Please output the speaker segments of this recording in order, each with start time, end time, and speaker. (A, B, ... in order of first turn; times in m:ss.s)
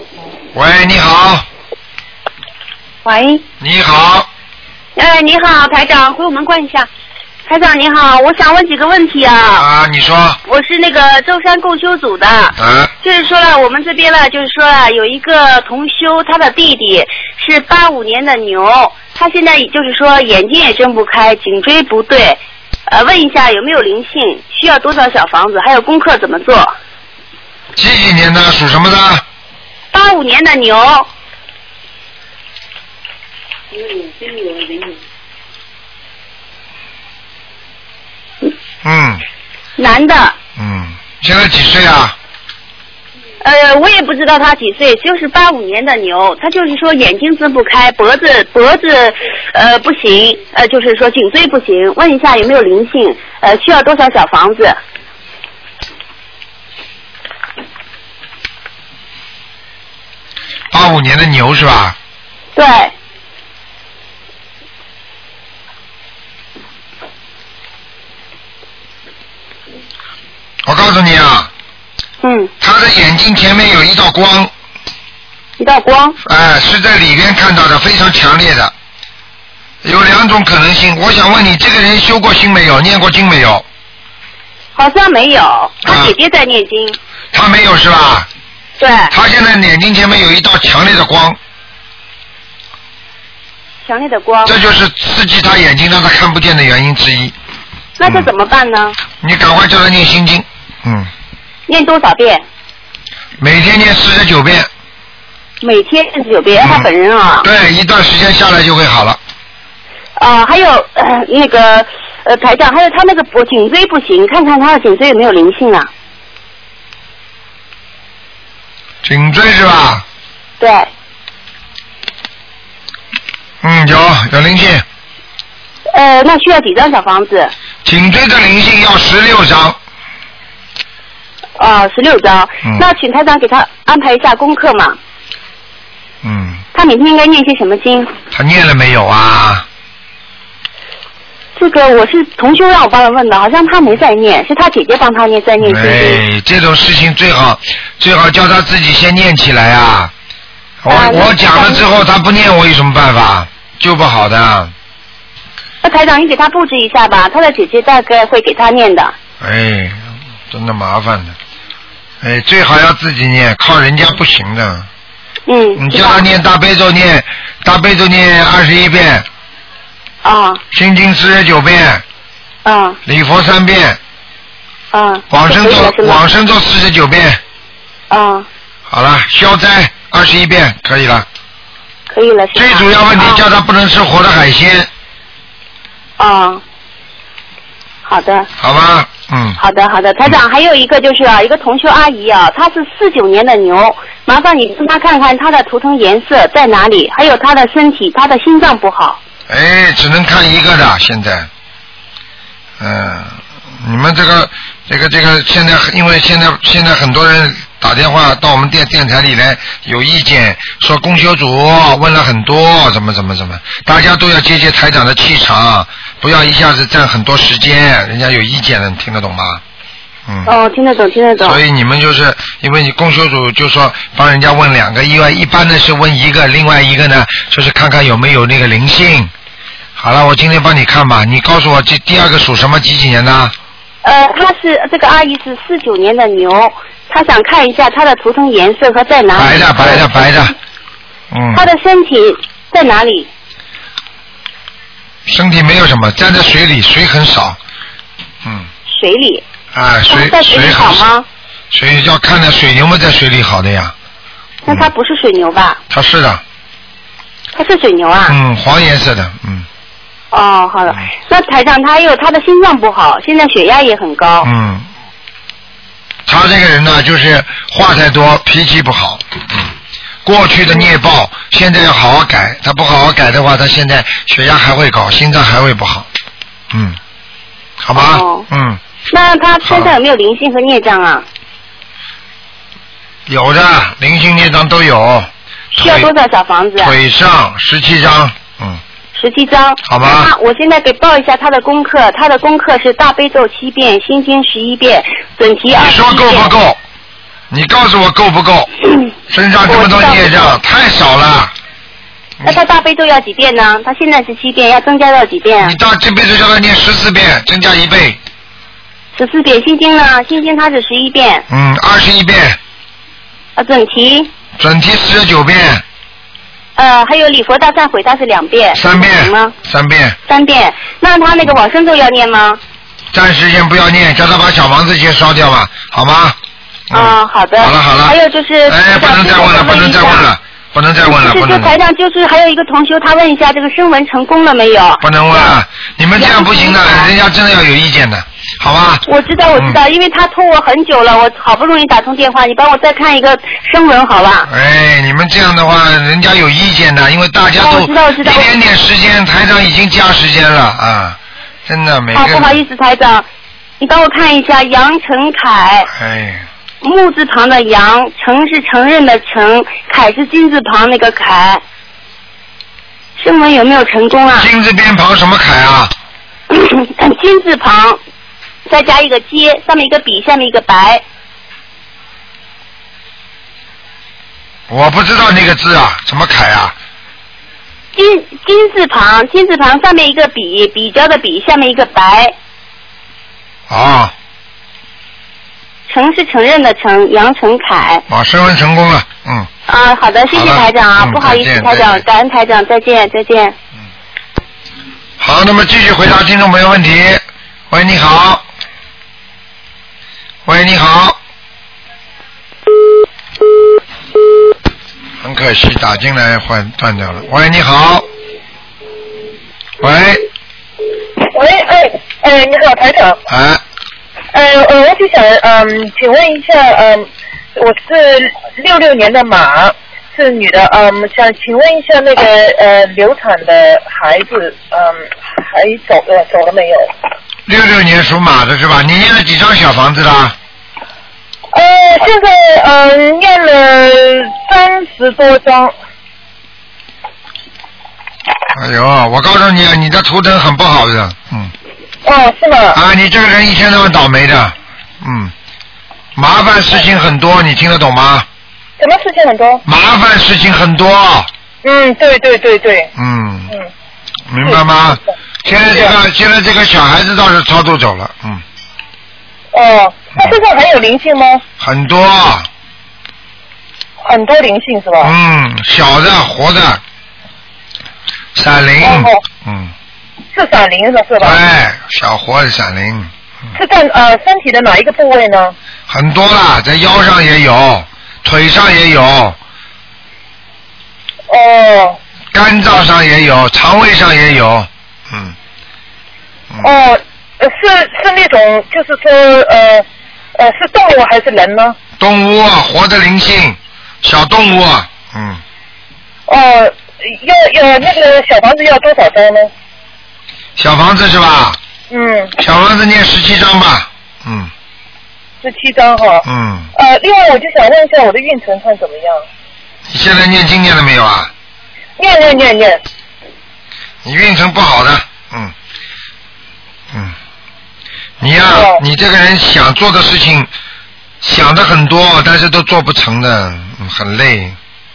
0:00.5-0:01.4 A
0:03.0-0:03.4 B
0:03.6-0:04.3 A
0:05.0-0:06.9 B
0:07.4-0:09.7 B
0:09.6-0:10.4 A
0:10.4-0:26.8 B
0:12.6-0:12.9 A
0:27.8-0:29.2 A
0:29.9-0:31.1 B
0:33.8-0:34.9 B
0:38.8-0:39.2 A
0:39.8-0:40.4 B
0:40.6-0:42.1 A
0:43.4-0:54.8 B
1:00.7-1:02.0 A
1:02.6-1:02.9 B
1:10.6-1:11.5 A
1:12.2-1:12.5 B
1:12.6-1:14.5 A
1:15.6-1:16.2 B
1:16.2-1:18.7 A
1:19.8-1:23.6 A
1:24.8-1:27.0 B
1:25.8-1:26.1 A
1:27.3-1:28.3 A
1:28.8-1:29.1 B
1:29.1-1:31.4 A
1:33.8-1:34.6 B
1:34.4-1:37.3 A
1:38.0-1:39.0 B
1:38.0-1:38.3 A
1:39.2-1:41.1 A
1:41.7-1:42.4 B
1:43.4-1:44.7 A
1:45.6-1:47.5 B
1:46.6-1:46.9 A
1:47.4-1:49.2 A
1:50.2-1:55.9 B
1:59.0-2:00.0 A
2:00.6-2:00.9 B
2:03.6-2:04.8 A
2:05.9-2:07.5 B
2:07.8-2:09.8 A
2:11.6-2:15.0 B
2:16.2-2:16.6 A
2:16.7-2:18.1 B
2:18.3-2:19.6 A
2:21.6-2:26.2 B
2:25.6-2:30.1 A
2:30.8-2:34.7 A
2:30.9-2:31.9 B
2:35.8-2:39.1 B
2:39.4-2:41.4 A
2:42.2-2:44.9 A
2:45.5-2:46.3 B
2:45.8-2:49.3 A
2:50.2-2:50.6 B
2:50.7-2:52.0 A
2:52.6-2:53.0 B
2:53.0-2:54.0 A
2:54.9-2:56.2 B
2:55.3-2:57.4 A
2:58.1-2:58.5 B
2:58.9-3:01.3 A
3:02.1-3:03.4 B
3:02.5-3:04.9 A
3:06.2-3:06.6 B
3:08.0-3:08.5 B
3:08.6-3:09.6 A
3:09.6-3:19.2 B
3:19.5-3:21.5 A
3:22.8-3:39.6 A
3:40.3-3:40.5 A
3:40.4-3:41.6 B
3:41.4-3:49.3 A
3:50.0-3:53.5 A
3:54.0-4:00.2 B
3:59.4-4:00.5 A
4:01.3-4:01.6 A
4:01.5-4:03.3 B
4:05.3-4:07.6 A
4:08.4-4:08.7 A
4:08.9-4:09.4 B
4:09.7-4:11.1 A
4:10.1-4:11.3 B
4:11.7-4:13.9 A
4:14.6-4:15.8 B
4:15.9-4:16.4 A
4:17.5-4:18.4 B
4:18.3-4:19.7 A
4:20.3-4:24.5 B
4:24.4-4:24.9 A
4:26.3-4:29.7 A
4:30.2-4:36.1 A
4:36.7-4:37.0 A
4:37.8-4:38.8 A
4:37.9-4:38.5 B
4:39.1-4:41.2 B
4:39.6-4:40.0 A
4:43.3-4:46.1 A
4:45.8-4:47.0 B
4:46.8-4:48.8 A
4:49.1-4:56.5 B
4:49.9-4:50.3 A
4:55.7-4:56.8 A
4:57.5-4:58.7 A
4:59.3-5:01.5 A
4:59.6-5:00.6 B
5:02.4-5:05.8 B
5:05.6-5:08.2 A
5:09.1-5:11.4 B
5:11.5-5:12.6 A
5:13.6-5:14.3 B
5:14.6-5:15.8 A
5:16.8-5:19.6 B
5:18.7-5:20.2 A
5:20.3-5:22.6 B
5:23.1-5:26.4 A
5:26.9-5:31.8 A
5:26.9-5:30.3 B
5:31.0-5:35.6 B
5:35.0-5:39.0 A
5:36.1-5:37.1 B
5:39.1-5:44.5 B
5:44.5-5:52.6 A
5:47.6-5:48.5 B
5:52.1-5:53.3 B
5:53.8-5:55.9 B
5:55.9-5:56.4 A
5:56.8-6:01.6 B
6:03.2-6:04.5 B
6:04.3-6:05.9 A
6:06.5-6:08.0 B
6:08.7-6:11.0 B
6:14.7-6:16.8 A
6:18.0-6:22.4 B
6:23.7-6:24.1 A
6:25.9-6:28.0 B
6:28.1-6:29.5 A
6:29.7-6:33.6 B
6:30.3-6:32.0 A
6:35.2-6:38.4 A
6:40.4-6:41.2 A
6:45.2-6:48.1 A
6:49.8-6:50.2 A
6:51.2-6:53.2 C
6:53.3-6:53.6 A
6:54.3-7:06.9 C
7:07.5-7:10.4 A
7:11.5-7:15.7 C
7:18.6-7:21.5 A
7:22.0-7:22.8 C
7:22.7-7:25.3 A
7:26.2-7:28.3 A
7:28.8-7:29.6 C
7:29.7-7:31.3 A
7:31.6-7:32.9 C
7:33.0-7:33.5 A
7:34.3-7:38.4 A
7:35.7-7:36.0 C
7:39.5-7:41.4 C
7:41.6-7:42.5 A
7:44.0-7:45.1 C
7:45.0-7:46.8 A
7:48.4-7:49.7 A
7:48.8-7:49.2 C
7:50.3-7:51.4 C
7:51.2-7:53.1 A
7:53.6-7:55.6 C
7:55.9-7:59.4 A
8:01.3-8:02.0 C
8:02.3-8:05.4 A
8:06.6-8:11.8 C
8:12.0-8:15.4 A
8:16.3-8:19.5 C
8:20.6-8:21.6 A
8:21.9-8:22.4 C
8:22.4-8:24.5 A
8:25.4-8:29.3 C
8:26.2-8:26.7 A
8:29.9-8:31.3 A
8:32.0-8:32.8 C
8:34.0-8:35.5 A
8:38.2-8:40.5 A
8:38.5-8:38.8 C
8:41.2-8:44.6 A